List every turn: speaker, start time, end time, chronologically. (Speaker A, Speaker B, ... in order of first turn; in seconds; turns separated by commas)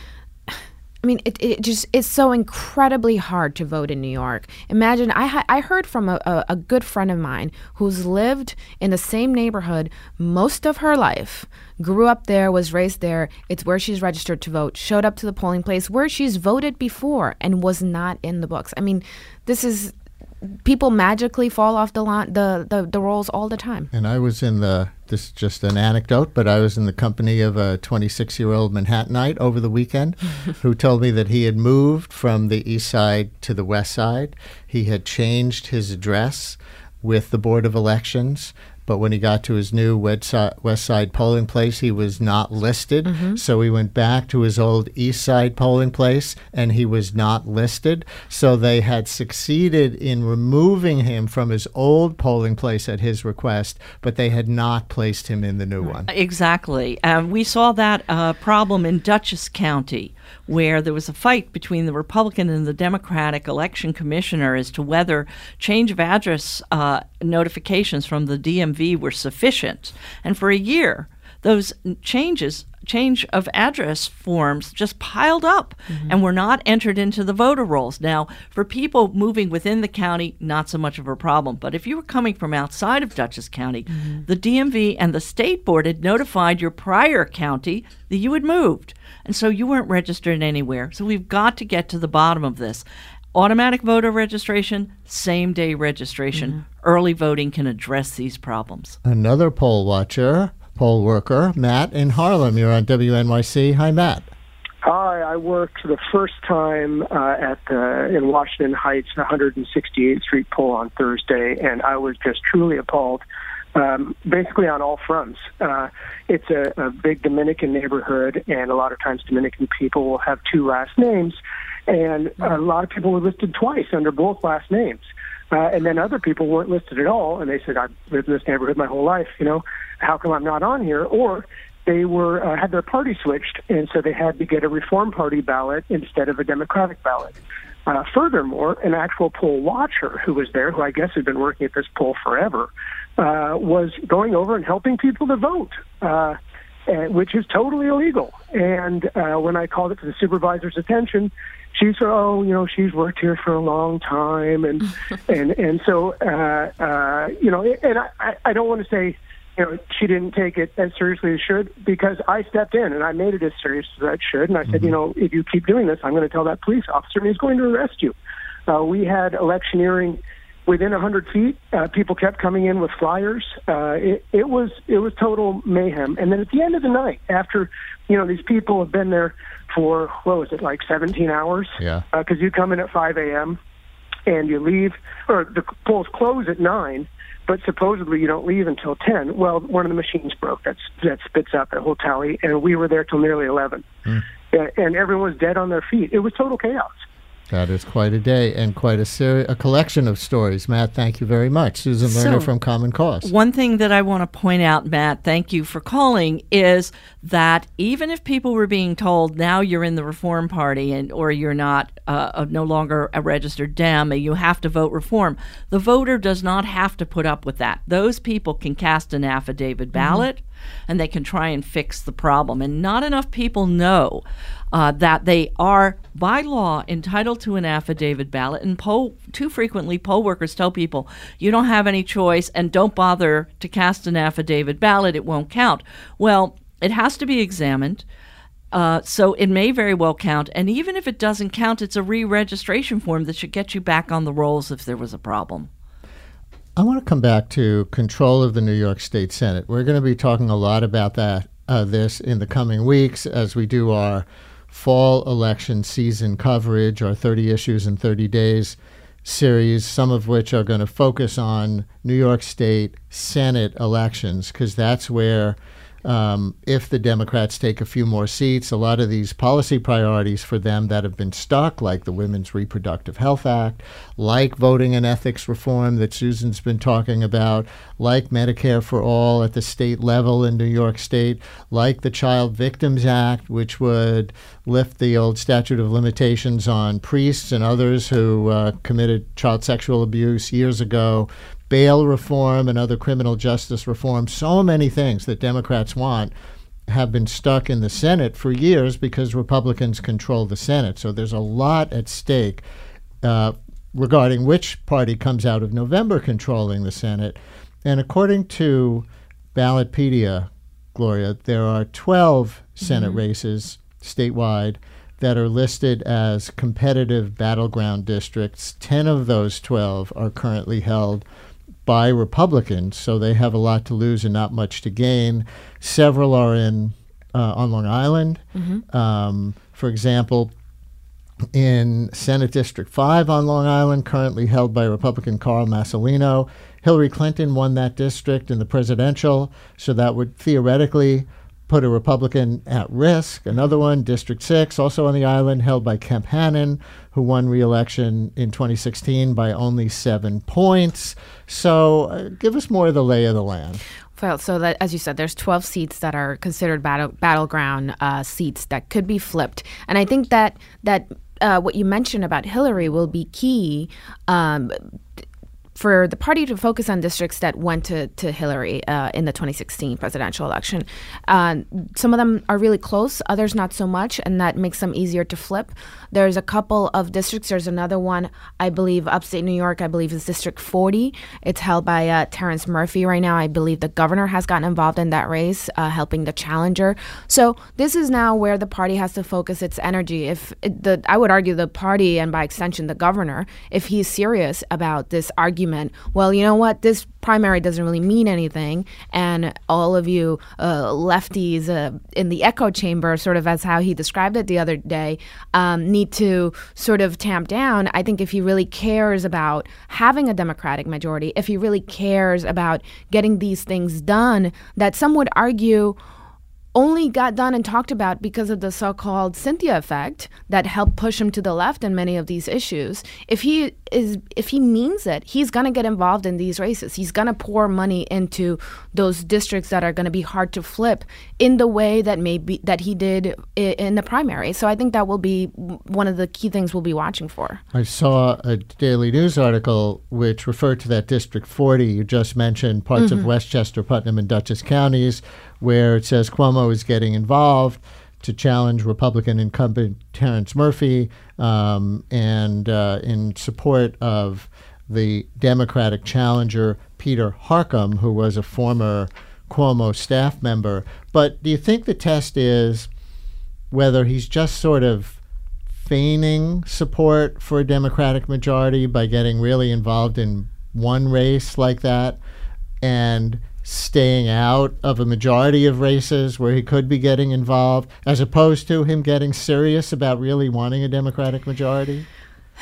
Speaker A: 0.5-19.9, Speaker A: 20.6-23.9, Speaker B: 23.9-56.1, Speaker A: 43.0-43.4, Speaker C: 56.1-99.0, Speaker A: 83.9-84.2, Speaker B: 99.0-104.3, Speaker D: 104.8-113.2, Speaker D: 113.7-168.1, Speaker B: 164.7-164.9, Speaker D: 168.7-183.6, Speaker B: 181.8-182.0, Speaker D: 184.2-193.8, Speaker D: 194.5-197.0, Speaker B: 197.5-203.3, Speaker C: 202.0-202.5, Speaker C: 203.2-238.0, Speaker A: 219.9-220.3, Speaker C: 238.7-245.7, Speaker B: 246.8-296.3, Speaker B: 296.9-302.6, Speaker B: 303.2-321.2, Speaker A: 312.8-313.2, Speaker B: 321.9-330.5, Speaker A: 328.6-328.8, Speaker B: 331.5-353.8, Speaker A: 354.1-364.8, Speaker A: 365.7-416.0, Speaker A: 416.7-437.6, Speaker B: 437.7-462.9, Speaker A: 443.0-443.2, Speaker B: 463.7-465.2, Speaker B: 465.8-472.2, Speaker B: 472.8-482.1